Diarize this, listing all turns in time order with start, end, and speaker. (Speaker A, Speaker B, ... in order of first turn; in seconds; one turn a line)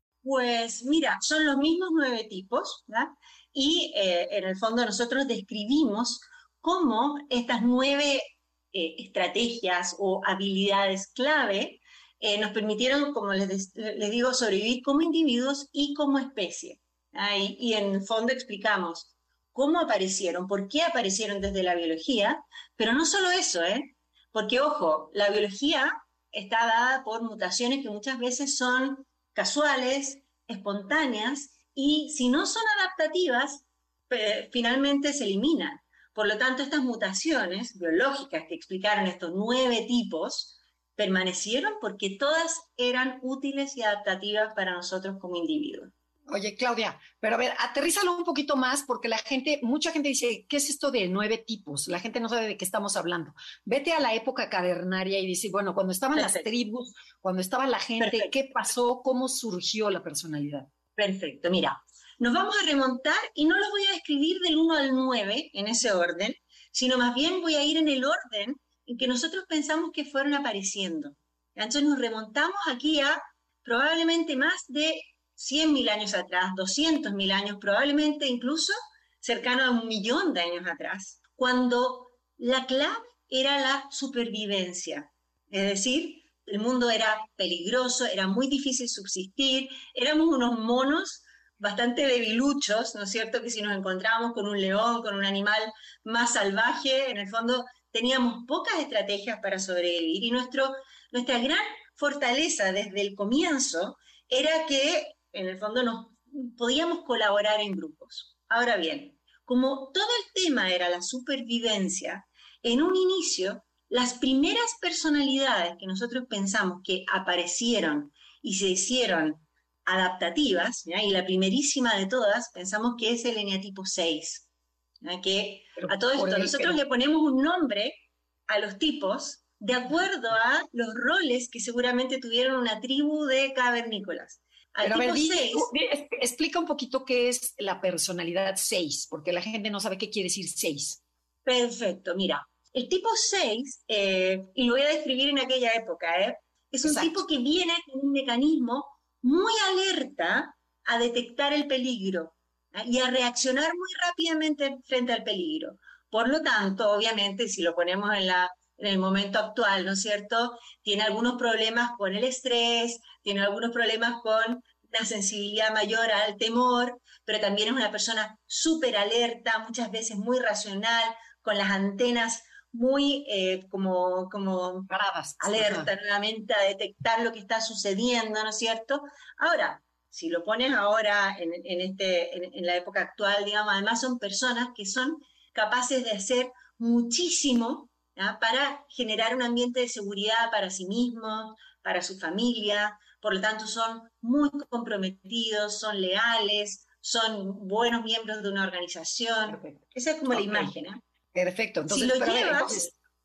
Speaker A: 0.2-45.9
Speaker B: 46.3-60.7
Speaker A: 56.1-56.5
Speaker A: 58.0-58.3
Speaker A: 61.0-124.5
Speaker A: 125.0-135.7
Speaker B: 125.8-126.8
Speaker B: 134.8-141.0
Speaker A: 141.5-174.9
Speaker B: 146.8-147.2
Speaker B: 174.9-175.9
Speaker A: 175.4-201.0
Speaker B: 199.5-200.7
Speaker B: 201.3-202.9
Speaker A: 201.9-202.9